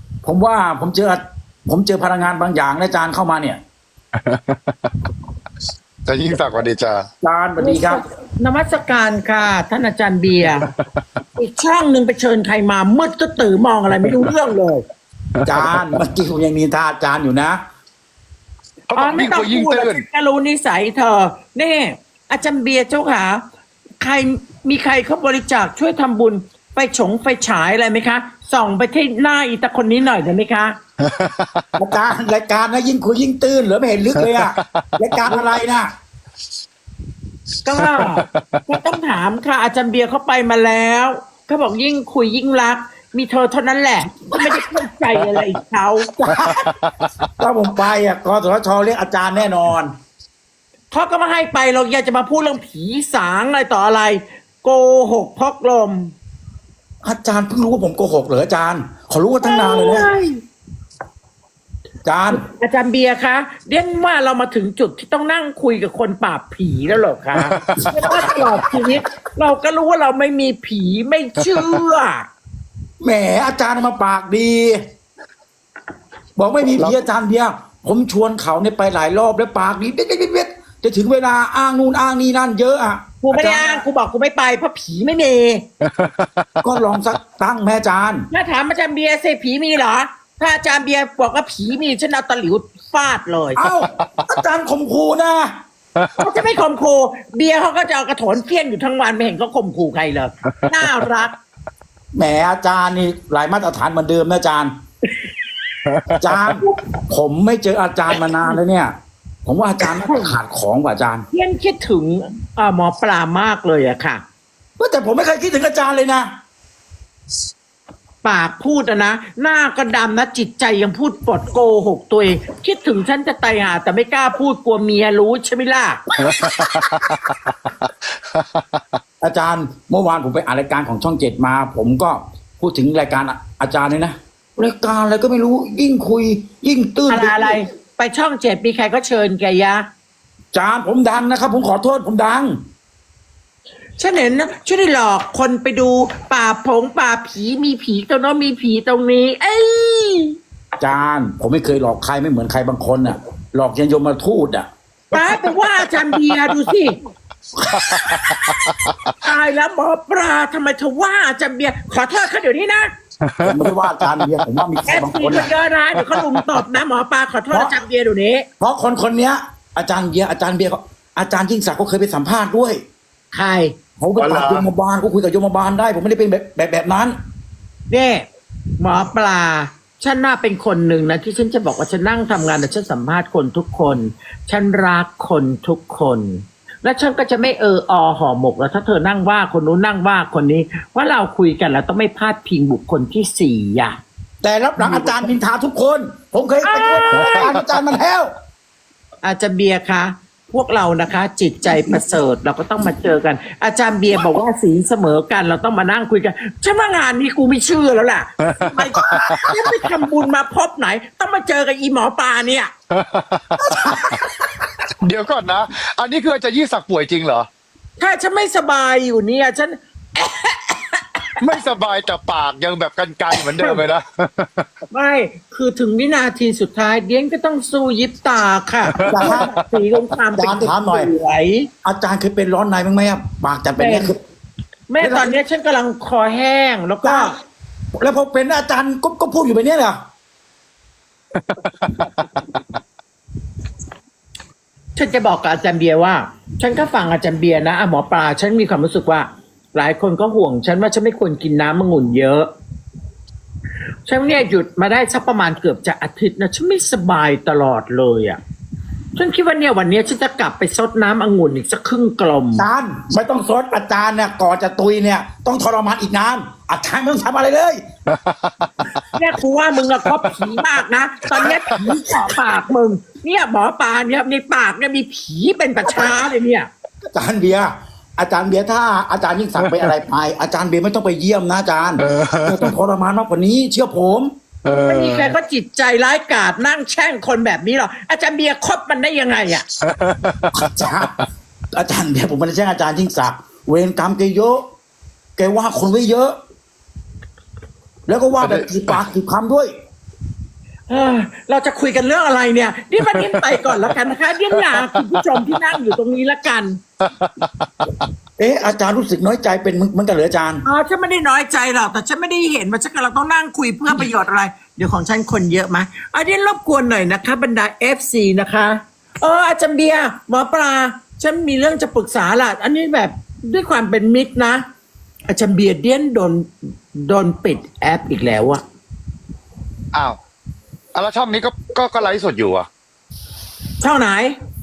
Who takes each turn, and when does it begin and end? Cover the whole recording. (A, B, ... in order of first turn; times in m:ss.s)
0:00.2-0:03.6 A
0:04.1-0:05.1 B
0:06.0-0:07.1 B
0:07.2-0:08.0 A
0:07.6-0:10.7 C
0:10.6-0:11.0 B
0:11.4-0:14.8 C
0:15.4-0:15.9 B
0:15.4-0:17.6 A
0:18.9-0:20.0 B
0:18.9-0:23.4 C
0:24.0-0:30.8 C
0:31.0-0:31.7 B
0:31.8-0:35.9 A
0:34.2-0:35.4 B
0:37.6-0:46.1 C
0:37.7-0:38.6 B
0:46.1-0:46.7 A
0:46.3-0:47.3 B
0:47.4-0:49.9 A
0:50.9-0:56.1 C
0:57.0-1:00.1 A
0:59.4-1:00.4 C
1:02.0-1:02.4 A
1:02.3-1:12.3 C
1:07.4-1:07.9 B
1:07.8-1:08.4 A
1:13.0-1:14.8 A
1:16.4-1:23.8 A
1:23.2-1:25.7 C
1:25.8-1:26.6 B
1:26.6-1:28.3 A
1:28.3-1:33.7 C
1:33.6-1:35.6 A
1:33.8-1:34.1 B
1:36.0-1:36.4 B
1:36.2-1:41.3 C
1:42.2-1:44.7 A
1:45.8-1:46.3 B
1:46.2-1:48.9 A
1:49.4-1:51.2 A
1:49.8-1:50.3 C
1:51.3-1:54.2 C
1:54.8-1:56.3 A
1:58.2-2:06.0 C
2:06.2-2:09.0 B
2:06.6-2:07.1 A
2:09.2-2:17.6 A
2:17.1-2:19.8 C
2:20.5-2:22.6 A
2:24.0-2:30.4 C
2:30.8-2:35.7 A
2:35.1-2:37.0 C
2:37.7-2:39.1 B
2:37.7-2:38.7 A
2:39.2-2:42.9 C
2:43.2-2:44.4 B
2:43.4-2:45.5 A
2:44.9-2:48.4 C
2:46.1-2:46.6 B
2:47.5-2:47.8 A
2:48.6-2:52.8 A
2:53.3-2:53.7 C
2:54.0-2:57.2 A
2:54.2-2:54.7 B
2:57.9-2:58.3 C
2:58.8-3:14.0 C
3:14.4-3:18.3 A
3:14.8-3:15.3 C
3:16.6-3:17.5 C
3:17.2-3:17.4 B
3:19.2-3:32.7 C
3:28.5-3:29.5 B
3:29.1-3:29.5 A
3:32.9-3:34.2 B
3:33.6-3:34.2 C
3:35.0-3:37.5 B
3:38.0-3:41.4 C
3:41.4-3:44.7 B
3:43.6-3:43.8 C
3:44.9-3:51.7 C
3:49.0-3:49.5 B
3:49.0-3:49.6 A
3:50.3-3:51.1 A
3:51.8-3:54.2 A
3:53.8-3:54.1 C
3:54.9-3:57.3 C
3:55.0-3:55.4 A
3:57.0-3:57.3 A
3:58.0-4:00.0 A
4:01.4-4:02.3 B
4:05.0-4:12.5 C
4:14.1-4:18.4 C
4:19.2-4:22.6 C
4:22.6-4:27.8 A
4:28.1-4:28.7 B
4:29.1-4:36.7 C
4:31.4-4:31.9 A
4:37.1-4:44.3 A
4:39.6-4:39.9 B
4:42.0-4:42.7 B
4:44.6-4:45.3 B
4:44.7-4:49.7 C
4:49.8-4:51.1 B
4:50.5-4:51.2 A
4:51.7-4:54.7 A
4:55.4-4:56.4 A
4:58.1-4:59.7 A
4:58.4-4:59.0 B
5:00.9-5:06.8 C
5:03.1-5:03.8 B
5:04.5-5:05.4 B
5:07.0-5:07.7 B
5:08.4-5:10.6 A
5:10.6-5:24.6 C
5:25.3-5:28.6 C
5:29.9-5:30.2 B
5:30.9-5:32.7 B
5:33.8-5:34.4 C